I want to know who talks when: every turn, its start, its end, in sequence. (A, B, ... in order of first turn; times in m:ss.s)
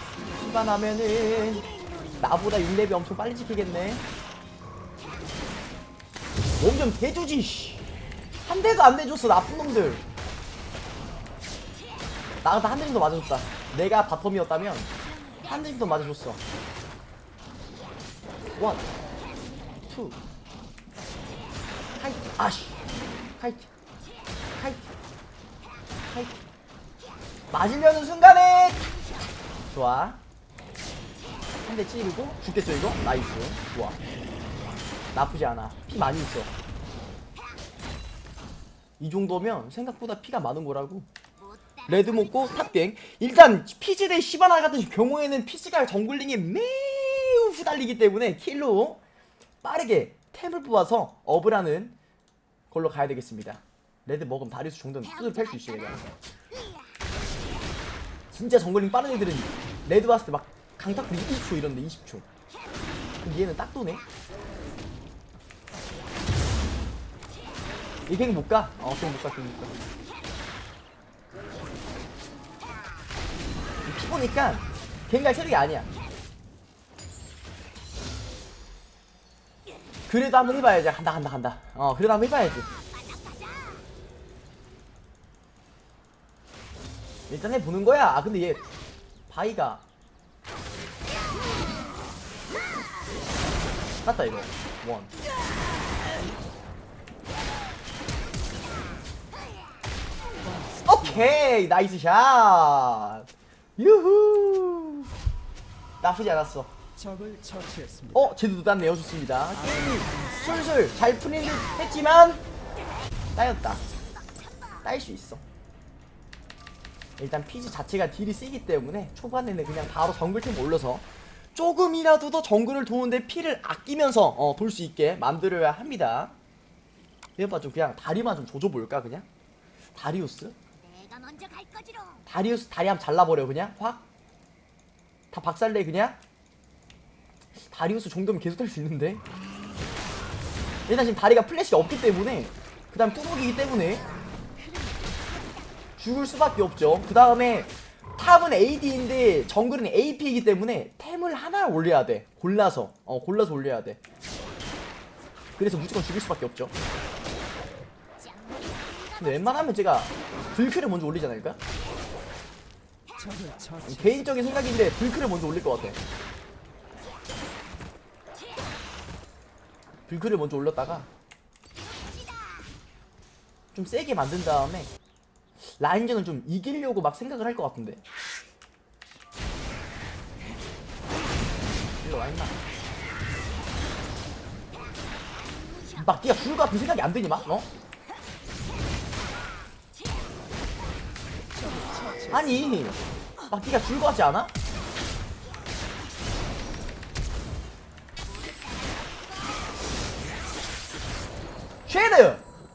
0:00.3-0:04.1 A
0:01.6-0:02.2 B
0:06.6-0:07.8 A
0:08.4-0:10.0 A
0:12.4-0:16.4 A
0:15.0-0:15.5 B
0:18.6-0:18.9 A
0:19.9-0:20.2 A
0:22.0-0:22.8 A
0:23.4-0:23.7 A
0:24.6-0:24.9 A
0:26.1-0:26.4 A
0:27.5-0:29.0 A
0:28.8-0:29.3 B
0:29.7-0:30.2 A
0:31.6-0:34.0 A
0:35.1-0:36.5 A
0:39.0-0:41.1 A
0:41.4-0:42.2 B
0:41.9-0:49.0 A
0:49.6-0:52.0 A
0:52.7-0:56.0 A
0:55.3-0:56.0 B
0:56.5-0:57.1 B
0:58.3-1:02.2 A
1:03.2-1:04.0 A
1:08.1-1:09.7 A
1:13.8-1:15.9 A
1:20.1-1:22.7 A
1:22.7-1:23.9 B
1:27.3-1:28.6 A
1:29.3-1:29.8 A
1:34.0-1:35.1 A
1:38.4-1:39.8 B
1:40.3-1:41.3 C
1:40.9-1:45.1 A
1:46.0-1:46.7 A
1:47.0-1:48.3 C
1:48.1-1:52.4 A
1:49.8-1:50.4 C
1:53.4-1:53.8 A
1:53.9-1:54.8 B
1:54.8-1:55.4 A
1:57.2-2:06.4 A
2:07.4-2:09.3 A
2:10.0-2:10.6 A
2:10.8-2:12.3 B
2:12.3-2:14.0 A
2:15.3-2:16.2 A
2:17.7-2:19.2 A
2:20.9-2:24.1 A
2:24.6-2:25.7 B
2:26.0-2:34.0 A
2:35.6-2:36.7 A
2:38.2-2:39.7 B
2:39.2-2:41.6 A
2:43.2-2:44.0 C
2:43.8-2:46.0 A
2:50.1-2:51.1 A
2:51.8-2:52.7 B
2:53.8-2:54.9 A
2:55.8-2:58.0 A
3:02.0-3:02.6 A
3:05.4-3:06.0 B
3:05.9-3:07.7 A
3:10.0-3:10.3 B
3:11.5-3:12.5 C
3:12.2-3:14.5 A
3:18.2-3:20.0 B
3:21.9-3:22.4 A